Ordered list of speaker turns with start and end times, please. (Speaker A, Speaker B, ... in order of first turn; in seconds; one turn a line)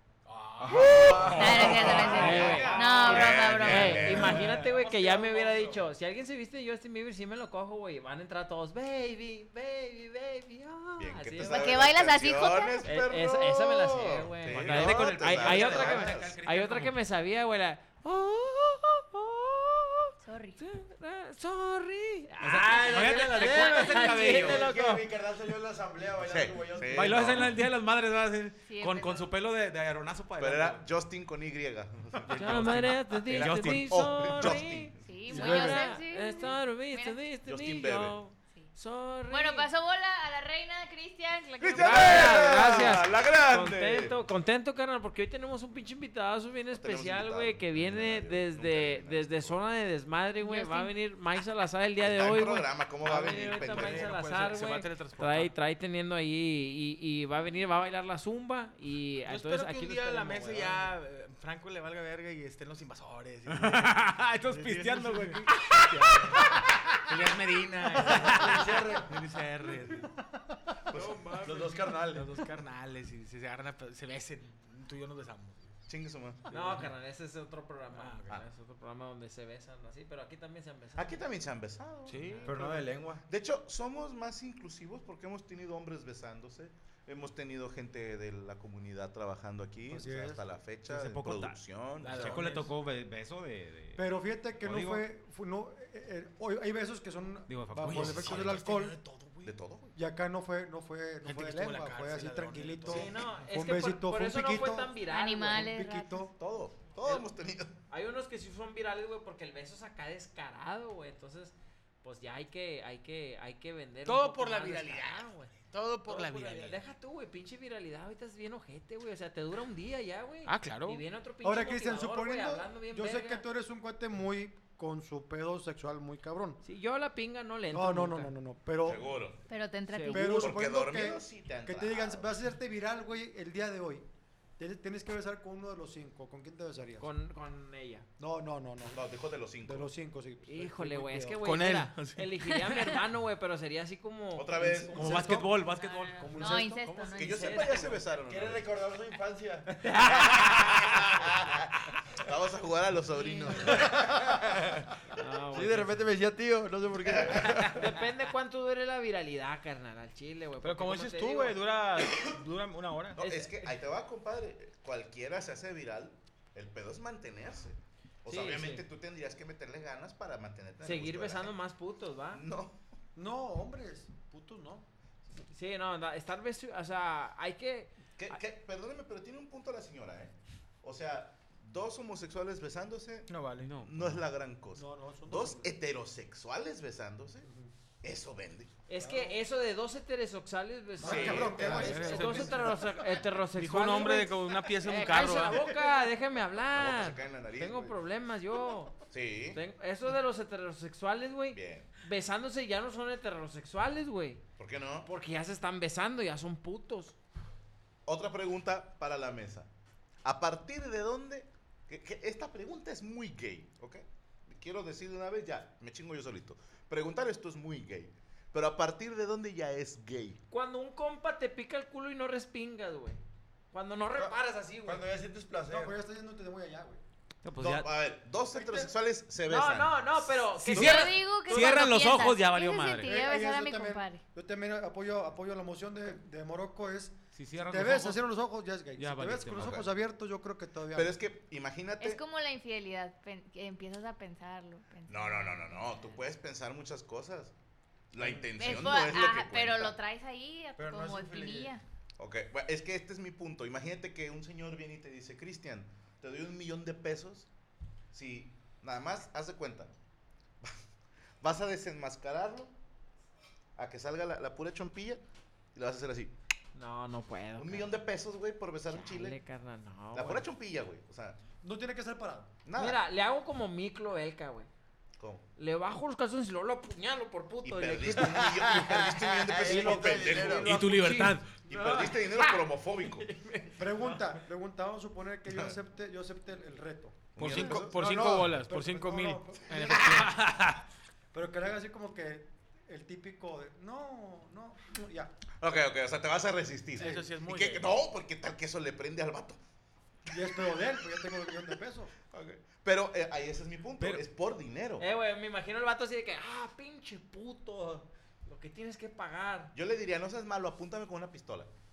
Speaker A: 0.3-3.2
Speaker B: 0.6-2.5
Speaker C: 0.7-4.5
Speaker D: 1.3-4.2
Speaker E: 2.0-11.9
Speaker F: 2.3-3.3
Speaker A: 4.1-5.8
Speaker C: 11.0-16.4
Speaker D: 11.4-12.9
Speaker E: 12.8-25.1
Speaker F: 14.4-16.9
Speaker D: 20.2-20.6
Speaker F: 22.4-24.7
Speaker A: 22.5-24.4
Speaker B: 24.3-27.5
Speaker C: 26.2-27.7
Speaker F: 26.9-30.8
Speaker D: 28.7-29.3
Speaker C: 30.4-35.4
Speaker E: 32.3-39.7
Speaker F: 32.4-34.6
Speaker D: 35.0-37.2
Speaker G: 35.3-35.9
Speaker C: 37.5-38.2
Speaker D: 39.3-43.0
Speaker C: 41.6-44.2
Speaker E: 41.8-60.9
Speaker C: 46.7-49.6
Speaker D: 50.4-50.9
Speaker C: 52.0-54.2
Speaker A: 53.1-55.5
Speaker A: 59.3-70.0
Speaker F: 63.5-66.6
Speaker B: 68.0-69.1
Speaker F: 68.1-68.6
Speaker G: 68.2-68.9
Speaker C: 70.9-71.2
Speaker A: 70.9-75.7
Speaker B: 71.4-72.3
Speaker C: 75.9-76.8
Speaker A: 76.5-76.9
Speaker E: 76.5-81.5
Speaker A: 77.9-78.4
Speaker C: 81.0-82.5
Speaker A: 82.1-82.8
Speaker E: 82.1-82.5
Speaker B: 82.4-83.2
Speaker C: 83.3-92.4
Speaker G: 89.9-90.4
Speaker F: 90.9-94.0
Speaker A: 92.0-92.7
Speaker G: 94.0-99.0
Speaker F: 94.6-95.0
Speaker F: 97.5-98.5
Speaker A: 97.8-99.6
Speaker C: 98.0-98.6
Speaker C: 99.4-99.9
Speaker G: 100.0-106.3
Speaker A: 101.2-103.1
Speaker E: 102.9-105.7
Speaker D: 105.1-106.2
Speaker C: 106.4-107.7
Speaker E: 107.0-107.3
Speaker E: 107.9-115.5
Speaker A: 114.0-116.8
Speaker E: 116.1-123.5
Speaker A: 120.5-121.0
Speaker G: 121.4-126.6
Speaker E: 126.6-128.3
Speaker G: 127.7-129.1
Speaker C: 128.8-129.4
Speaker D: 129.5-130.4
Speaker E: 129.9-130.5
Speaker G: 130.1-134.1
Speaker C: 130.4-132.3
Speaker G: 134.6-137.1
Speaker E: 137.0-138.1
Speaker G: 138.2-139.1
Speaker C: 138.9-139.9
Speaker G: 139.6-141.4
Speaker E: 140.4-144.7
Speaker A: 141.4-142.3
Speaker C: 144.3-145.5
Speaker G: 144.6-145.6
Speaker F: 144.9-146.6
Speaker D: 145.6-147.8
Speaker G: 146.2-146.9
Speaker E: 146.8-148.0
Speaker C: 147.1-148.7
Speaker B: 148.3-149.8
Speaker E: 149.8-151.0
Speaker C: 150.1-151.7
Speaker C: 152.2-154.0
Speaker D: 153.1-153.9
Speaker E: 155.2-156.0
Speaker B: 155.5-157.8
Speaker C: 157.1-157.5
Speaker E: 157.3-161.6
Speaker A: 160.6-163.2
Speaker E: 163.2-163.8
Speaker C: 163.2-171.6
Speaker E: 168.3-168.8
Speaker E: 170.8-172.4
Speaker C: 172.3-172.8
Speaker G: 173.2-174.9
Speaker E: 175.5-177.9
Speaker C: 178.2-187.5
Speaker A: 183.3-183.7
Speaker F: 183.6-184.2
Speaker G: 184.8-185.8
Speaker G: 187.4-187.7
Speaker C: 188.0-188.7
Speaker E: 188.9-198.9
Speaker G: 189.0-189.4
Speaker G: 191.0-192.8
Speaker C: 191.0-192.8
Speaker A: 191.7-192.6
Speaker A: 193.5-195.9
Speaker C: 196.7-198.0
Speaker C: 199.1-199.6
Speaker E: 199.5-204.4
Speaker C: 201.5-201.9
Speaker C: 204.6-205.1
Speaker E: 205.0-207.2
Speaker C: 208.1-209.7
Speaker C: 210.2-220.4
Speaker E: 220.5-223.2
Speaker E: 223.7-225.1
Speaker B: 224.1-225.9
Speaker G: 225.7-227.0
Speaker F: 227.4-227.9
Speaker C: 227.6-230.7
Speaker E: 228.6-228.9
Speaker E: 229.5-232.1
Speaker F: 230.6-233.2
Speaker D: 230.7-234.2
Speaker G: 233.0-241.2
Speaker F: 237.3-238.2
Speaker F: 239.0-239.8
Speaker C: 239.6-239.9
Speaker C: 240.9-242.2
Speaker D: 242.0-246.2
Speaker C: 245.1-247.5
Speaker C: 248.1-250.0
Speaker D: 248.5-251.8
Speaker B: 250.8-251.7
Speaker C: 252.2-257.5
Speaker C: 258.1-259.9
Speaker C: 261.4-262.7
Speaker C: 263.8-265.2
Speaker C: 265.7-266.3
Speaker E: 266.8-267.9
Speaker C: 267.6-269.4
Speaker E: 268.9-270.5
Speaker C: 270.1-271.4
Speaker G: 271.6-272.5
Speaker C: 272.6-273.0
Speaker E: 272.8-274.7
Speaker C: 275.2-275.4
Speaker E: 275.6-279.0
Speaker C: 277.6-280.8
Speaker B: 279.5-280.9
Speaker G: 279.6-280.9
Speaker F: 280.6-281.5
Speaker E: 280.8-284.2
Speaker C: 281.6-283.3
Speaker G: 283.8-290.4
Speaker C: 285.5-285.8
Speaker C: 287.4-288.0
Speaker A: 287.4-290.0
Speaker B: 288.0-288.4
Speaker F: 289.9-290.8
Speaker G: 291.3-295.4
Speaker C: 295.6-299.6
Speaker G: 297.0-297.3
Speaker A: 297.0-297.9
Speaker G: 300.3-302.1
Speaker C: 302.3-305.1
Speaker F: 304.0-304.2
Speaker E: 305.0-309.7
Speaker C: 309.7-311.7